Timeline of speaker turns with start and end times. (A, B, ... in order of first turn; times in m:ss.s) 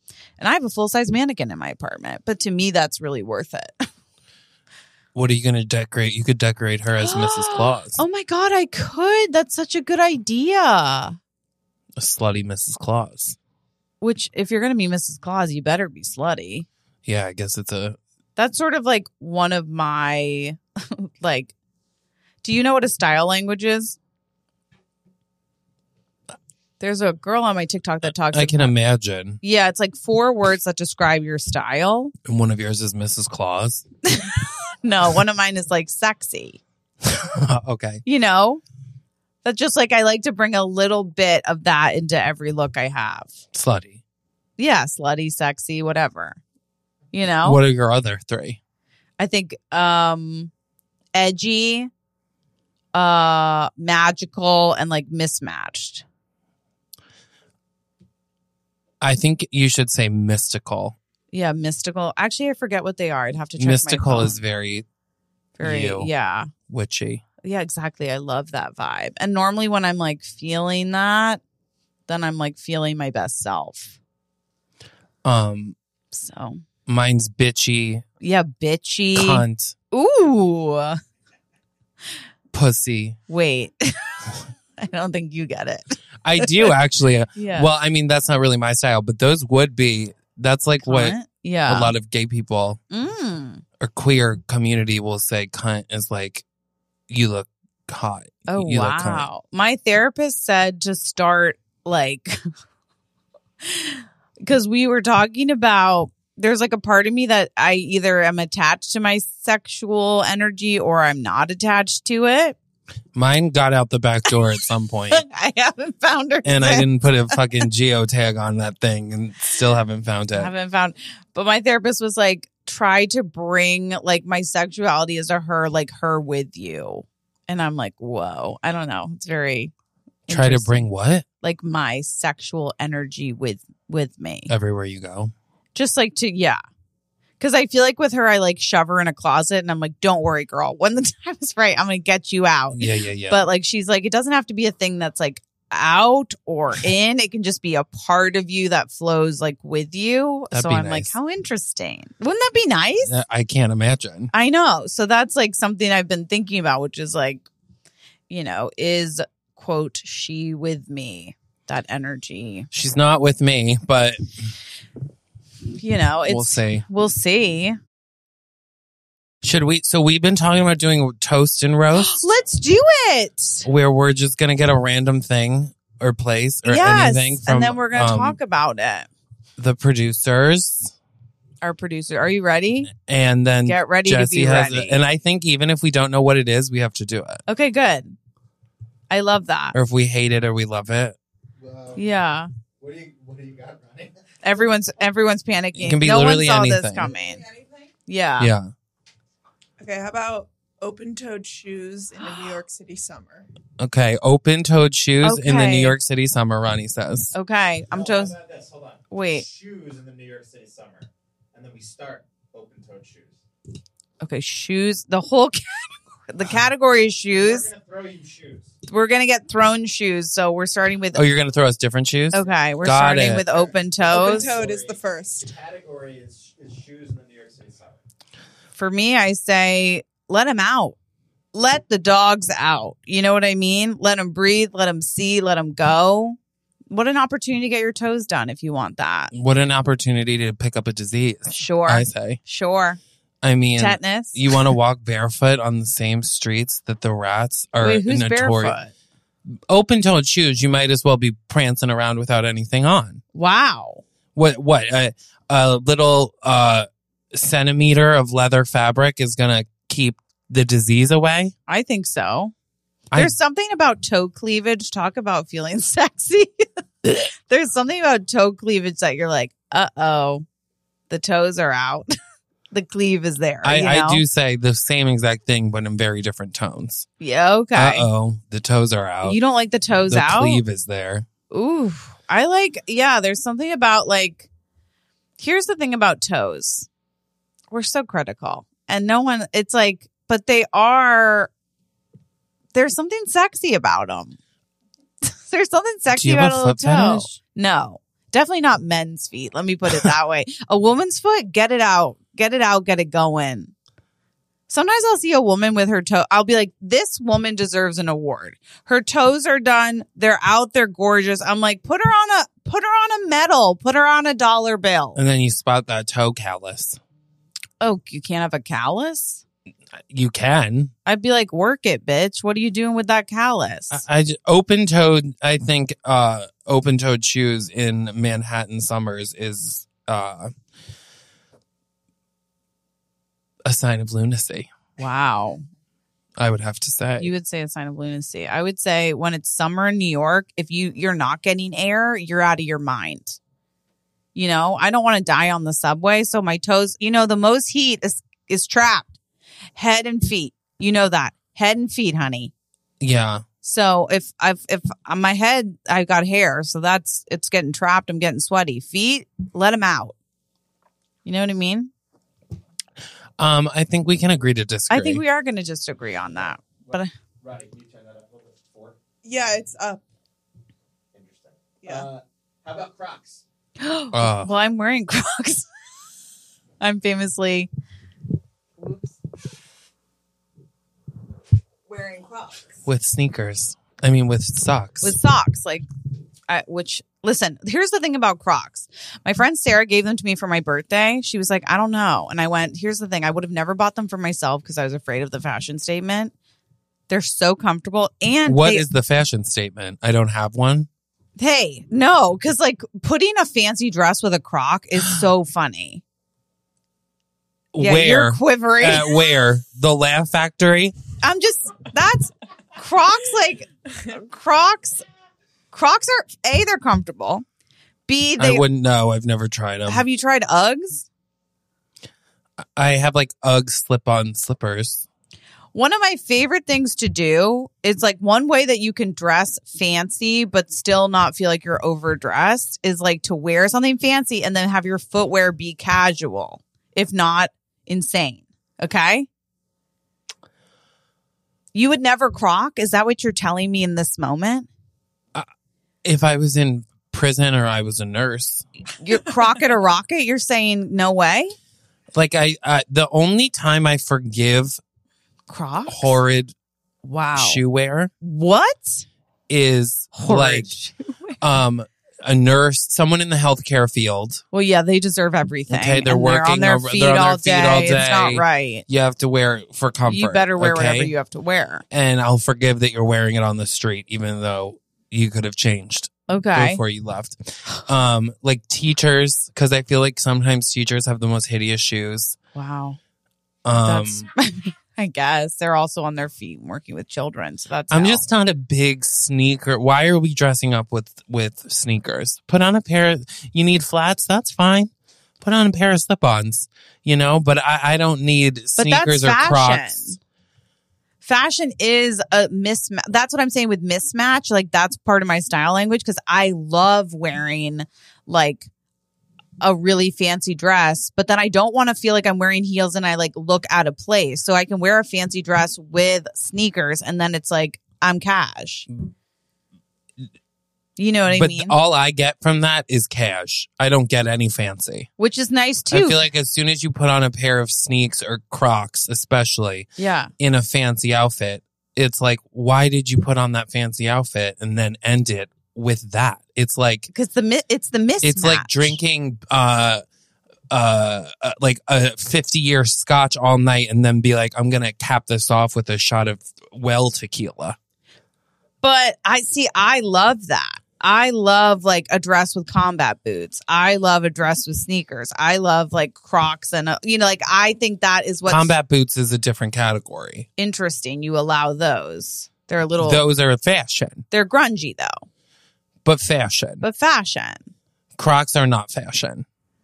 0:00.4-0:03.9 A
0:05.1-0:08.0 B
0:07.0-0:11.2 A
0:12.0-0:13.4 B
0:14.0-0:16.7 A
0:17.0-0:18.0 B
0:18.4-0:21.5 A
0:22.4-0:24.0 A
0:26.8-0:28.7 A
0:28.3-0:29.4 B
0:29.4-0:32.1 A
0:32.2-0:33.8 B
0:34.1-0:36.6 A
0:37.0-0:38.0 B
0:38.0-0:38.6 A
0:39.4-0:43.3 A
0:43.5-0:44.0 B
0:44.6-0:46.4 A
0:47.1-0:47.6 A
0:47.4-0:48.6 B
0:49.2-0:50.5 A
0:51.1-0:51.9 A
0:52.9-0:56.0 A
0:59.0-1:00.9 B
1:01.3-1:04.4 A
1:03.6-1:04.8 B
1:05.6-1:06.5 A
1:05.6-1:06.1 B
1:06.7-1:07.2 B
1:07.4-1:11.4 A
1:12.1-1:14.0 A
1:15.2-1:15.8 B
1:16.1-1:16.6 A
1:16.9-1:18.0 B
1:18.2-1:21.0 A
1:19.1-1:19.7 B
1:22.5-1:23.2 B
1:23.3-1:23.9 A
1:24.8-1:26.7 A
1:26.2-1:31.2 B
1:27.3-1:27.7 A
1:30.8-1:31.9 A
1:31.7-1:32.8 B
1:32.9-1:33.6 A
1:33.8-1:36.4 B
1:37.1-1:39.3 B
1:38.5-1:42.5 A
1:43.6-1:52.6 A
1:53.1-1:55.2 B
1:55.1-1:57.4 A
1:56.4-2:00.5 B
2:00.3-2:09.7 A
2:10.3-2:10.9 A
2:10.3-2:11.2 B
2:11.4-2:14.5 A
2:14.5-2:15.3 B
2:15.7-2:16.6 A
2:17.4-2:33.1 A
2:22.7-2:23.4 B
2:30.5-2:31.1 B
2:33.0-2:34.3 B
2:34.3-2:37.4 A
2:38.3-2:42.7 A
2:42.7-2:44.4 B
2:45.7-2:47.8 A
2:46.3-2:46.8 B
2:49.4-2:52.2 B
2:51.9-2:53.6 A
2:53.6-2:58.4 B
2:56.6-2:59.1 A
2:59.6-3:00.9 B
3:01.6-3:02.9 A
3:02.9-3:07.4 B
3:03.6-3:05.0 A
3:07.5-3:08.2 A
3:09.1-3:09.8 A
3:09.7-3:11.2 B
3:11.6-3:12.0 C
3:12.0-3:12.5 A
3:12.8-3:14.1 C
3:14.4-3:17.4 A
3:15.8-3:17.1 B
3:18.1-3:18.5 A
3:18.4-3:18.7 B
3:19.8-3:23.5 D
3:23.8-3:27.3 B
3:25.2-3:26.0 A
3:27.3-3:28.3 A
3:27.9-3:33.4 C
3:29.1-3:29.4 A
3:34.2-3:37.7 A
3:37.3-3:38.8 C
3:38.9-3:41.2 A
3:41.1-3:43.6 B
3:42.3-3:44.6 A
3:43.7-3:48.0 C
3:44.1-3:45.5 D
3:48.8-3:51.0 A
3:51.5-3:56.4 A
3:56.9-3:59.3 A
3:59.3-4:02.4 B
4:01.5-4:03.0 A
4:03.4-4:08.8 B
4:03.8-4:04.6 A
4:07.8-4:08.9 A
4:09.7-4:13.2 B
4:13.3-4:14.0 A
4:14.3-4:21.5 B
4:21.7-4:22.5 A
4:23.1-4:26.5 A
4:27.1-4:30.4 A
4:31.1-4:32.1 A
4:32.7-4:34.2 A
4:33.6-4:37.1 B
4:37.2-4:38.1 A
4:37.7-4:39.4 B
4:39.2-4:40.6 A
4:40.1-4:41.2 B
4:41.5-4:44.5 A
4:45.4-4:46.9 A
4:47.7-4:51.5 A
4:52.7-4:54.4 A
4:55.2-5:03.7 A
4:56.1-4:57.3 B
5:04.7-5:15.2 A
5:15.2-5:17.0 B
5:17.8-5:19.4 A
5:20.1-5:20.9 B
5:21.0-5:24.0 A
5:23.9-5:30.5 B
5:33.6-5:34.7 B
5:35.0-5:35.6 A
5:36.4-5:37.3 B
5:37.2-5:43.4 A
5:44.3-5:49.2 A
5:49.8-5:52.5 A
5:53.0-5:53.4 B
5:53.6-6:00.2 A
6:01.2-6:01.9 A
6:03.4-6:05.2 B
6:04.9-6:07.1 A
6:06.8-6:09.6 C
6:09.2-6:10.0 D
6:11.1-6:13.4 C
6:13.8-6:15.7 A
6:14.1-6:14.5 B
6:16.8-6:17.7 A
6:18.8-6:19.1 A
6:21.9-6:22.6 A
6:22.8-6:25.2 B
6:25.0-6:25.8 A
6:26.5-6:36.3 A
6:37.1-6:38.9 A
6:38.4-6:40.9 B
6:41.4-6:46.0 A
6:47.7-6:51.0 B
6:47.8-6:49.2 A
6:51.2-6:55.0 A
6:55.7-6:57.4 A
6:58.1-6:58.6 A
6:58.4-7:00.0 B
6:59.9-7:01.1 A
7:02.8-7:05.0 B
7:05.7-7:19.3 A
7:21.7-7:24.7 A
7:26.0-7:28.6 B
7:29.0-7:31.5 A
7:32.1-7:34.8 B
7:35.5-7:36.2 A
7:35.9-7:36.5 B
7:37.0-7:37.6 A
7:37.3-7:38.1 B
7:38.2-7:39.0 A
7:39.5-7:40.7 B
7:40.1-7:41.4 A
7:41.4-7:44.4 B
7:44.5-7:48.8 A
7:45.7-7:51.1 B
7:50.0-7:51.8 A
7:51.9-8:02.4 B
7:56.3-7:56.8 A
8:02.5-8:03.0 A
8:03.6-8:04.3 B
8:03.7-8:08.2 A
8:07.9-8:14.9 B
8:15.4-8:20.1 B
8:18.8-8:20.2 A
8:21.2-8:28.7 A
8:29.6-8:38.9 A
8:41.0-8:41.8 A
8:41.3-8:45.1 B
8:45.2-8:46.3 A
8:45.9-8:57.1 B
8:50.0-8:50.3 A
8:57.1-8:59.0 A
8:58.2-9:00.0 B
9:00.7-9:07.8 B
9:08.8-9:18.8 A
9:18.4-9:20.5 B
9:20.6-9:23.2 A
9:23.0-9:24.2 B
9:24.3-9:25.2 A
9:26.0-9:26.8 B
9:26.8-9:27.6 A
9:28.2-9:29.4 B